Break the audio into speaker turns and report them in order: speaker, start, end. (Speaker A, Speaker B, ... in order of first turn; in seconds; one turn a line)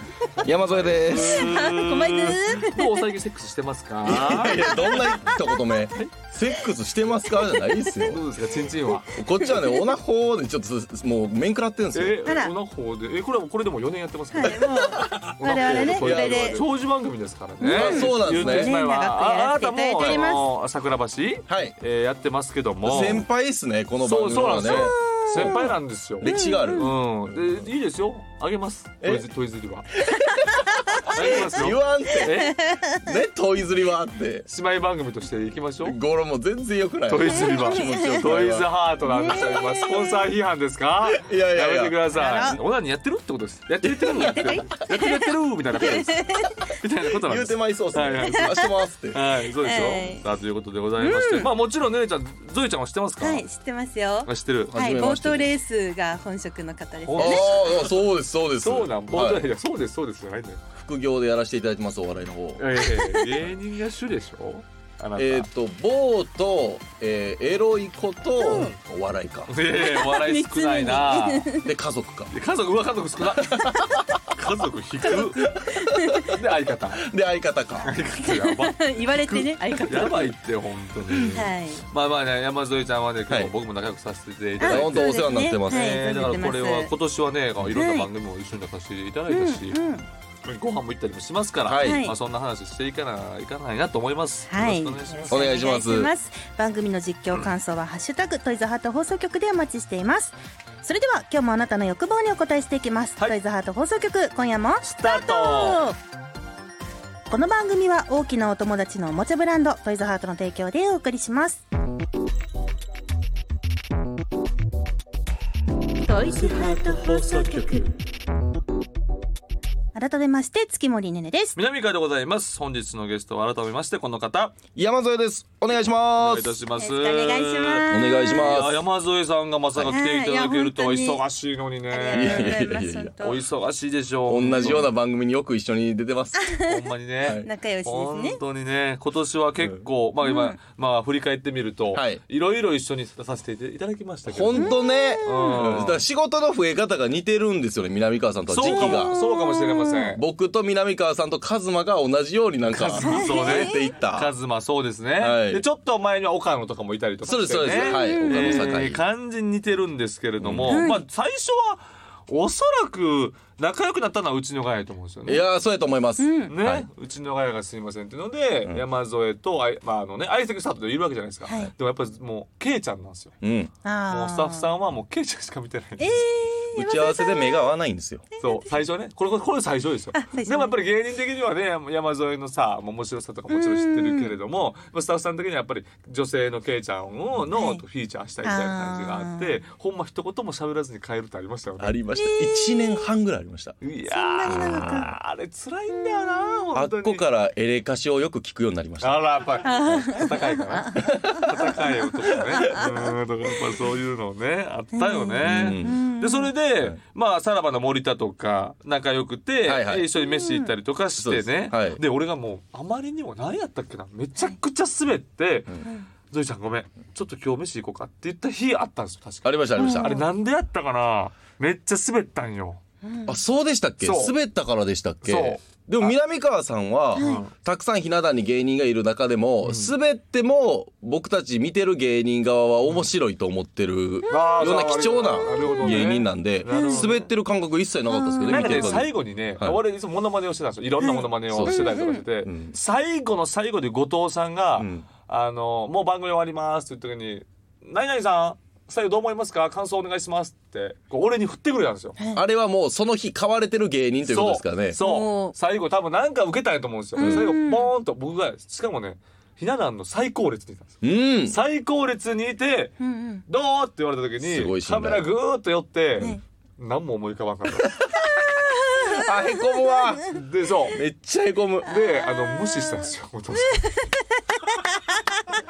Speaker A: 0.4-1.8
Speaker B: 0.4-5.0
Speaker C: 1.2-3.0
Speaker A: 4.0-8.3
Speaker C: 4.4-5.4
Speaker B: 8.0-9.1
Speaker A: 9.1-12.3
Speaker C: 9.4-9.9
Speaker B: 11.9-23.3
Speaker C: 12.2-12.5
Speaker C: 14.3-16.6
Speaker A: 15.0-16.6
Speaker C: 17.6-20.5
Speaker A: 17.7-18.8
Speaker A: 20.0-20.3
Speaker A: 21.5-21.8
Speaker A: 22.8-27.7
Speaker B: 24.0-29.9
Speaker C: 24.7-26.9
Speaker A: 30.1-34.5
Speaker C: 30.1-31.4
Speaker B: 31.1-32.6
Speaker C: 32.2-33.1
Speaker B: 34.5-36.0
Speaker A: 35.9-38.7
Speaker B: 37.1-53.4
Speaker C: 37.3-38.2
Speaker C: 39.1-40.3
Speaker A: 41.2-42.0
Speaker C: 42.1-42.6
Speaker A: 44.1-44.5
Speaker C: 44.2-46.7
Speaker A: 47.3-49.2
Speaker C: 49.6-50.2
Speaker C: 51.0-51.5
Speaker C: 53.2-57.8
Speaker B: 54.3-54.7
Speaker A: 54.7-55.5
Speaker B: 57.0-57.9
Speaker A: 57.2-59.5
Speaker B: 58.6-60.6
Speaker A: 60.8-62.6
Speaker B: 62.6-65.5
Speaker C: 62.8-63.4
Speaker A: 65.2-69.5
Speaker C: 68.4-68.7
Speaker B: 69.5-71.5
Speaker C: 69.7-71.7
Speaker A: 71.6-72.3
Speaker B: 72.3-75.6
Speaker A: 73.3-74.2
Speaker C: 75.1-76.3
Speaker A: 75.6-76.2
Speaker B: 76.2-77.0
Speaker A: 76.9-77.9
Speaker B: 77.8-89.8
Speaker C: 78.2-80.3
Speaker C: 81.3-81.8
Speaker A: 84.6-86.0
Speaker C: 84.6-86.9
Speaker C: 87.7-88.1
Speaker C: 89.3-90.0
Speaker B: 90.4-95.7
Speaker A: 91.7-92.1
Speaker C: 91.8-92.2
Speaker C: 94.5-106.0
Speaker A: 95.3-96.1
Speaker B: 104.8-105.8
Speaker C: 107.3-111.6
Speaker C: 116.0-117.9
Speaker B: 116.1-117.9
Speaker C: 120.0-121.6
Speaker B: 121.6-124.6
Speaker A: 124.8-126.6
Speaker B: 126.2-132.7
Speaker C: 126.8-128.6
Speaker A: 127.9-128.8
Speaker C: 129.8-131.2
Speaker C: 131.9-133.4
Speaker A: 132.1-133.1
Speaker B: 133.2-134.9
Speaker A: 134.3-136.5
Speaker C: 136.3-138.4
Speaker B: 136.7-144.7
Speaker C: 140.2-140.6
Speaker A: 141.9-142.2
Speaker A: 144.3-149.2
Speaker C: 144.6-145.6
Speaker B: 145.2-146.0
Speaker B: 148.5-150.2
Speaker C: 148.6-150.2
Speaker A: 150.2-154.3
Speaker B: 152.7-165.4
Speaker C: 153.0-153.8
Speaker A: 155.2-155.6
Speaker A: 157.2-159.0
Speaker C: 157.8-158.7
Speaker A: 160.4-160.9
Speaker C: 160.7-161.0
Speaker A: 165.3-166.9
Speaker C: 166.2-166.5
Speaker B: 166.5-173.3
Speaker A: 173.4-173.7
Speaker C: 173.8-174.7
Speaker B: 174.1-176.2
Speaker C: 176.0-177.6
Speaker A: 176.8-178.3
Speaker C: 178.4-178.6
Speaker B: 178.4-192.0
Speaker C: 180.1-180.8
Speaker C: 183.5-184.3
Speaker C: 187.6-187.8
Speaker C: 188.4-189.6
Speaker A: 191.8-193.8
Speaker C: 192.2-193.1
Speaker B: 193.8-197.2
Speaker C: 194.1-195.1
Speaker A: 194.4-195.2
Speaker C: 196.0-196.3
Speaker A: 196.7-199.2
Speaker B: 199.0-222.8
Speaker C: 199.6-203.1
Speaker A: 200.9-201.7
Speaker A: 202.6-202.8
Speaker C: 204.9-206.5
Speaker A: 205.4-206.0
Speaker A: 209.7-210.1
Speaker C: 210.3-210.7
Speaker A: 211.2-212.0
Speaker A: 219.4-220.2
Speaker C: 219.8-220.2
Speaker C: 223.0-223.4
Speaker A: 223.3-239.8
Speaker B: 224.0-224.3
Speaker B: 225.2-226.1
Speaker C: 227.2-227.4
Speaker B: 227.2-227.5
Speaker B: 229.7-229.9
Speaker C: 234.3-236.1
Speaker B: 234.3-237.3
Speaker C: 236.7-237.1
Speaker C: 238.1-239.0
Speaker B: 238.4-252.2
Speaker C: 241.0-242.2
Speaker A: 241.5-242.8
Speaker A: 244.8-245.1
Speaker C: 252.2-252.4
Speaker A: 252.3-255.0
Speaker B: 254.3-261.0
Speaker C: 255.0-255.6
Speaker C: 257.2-257.9
Speaker A: 257.2-257.5
Speaker A: 261.0-261.6
Speaker B: 261.5-267.9
Speaker C: 263.0-263.4
Speaker A: 264.4-265.3
Speaker C: 268.3-270.0
Speaker A: 269.0-270.3
Speaker B: 270.2-271.0
Speaker A: 270.9-271.9
Speaker B: 271.9-273.9
Speaker C: 271.9-273.1
Speaker C: 273.8-274.8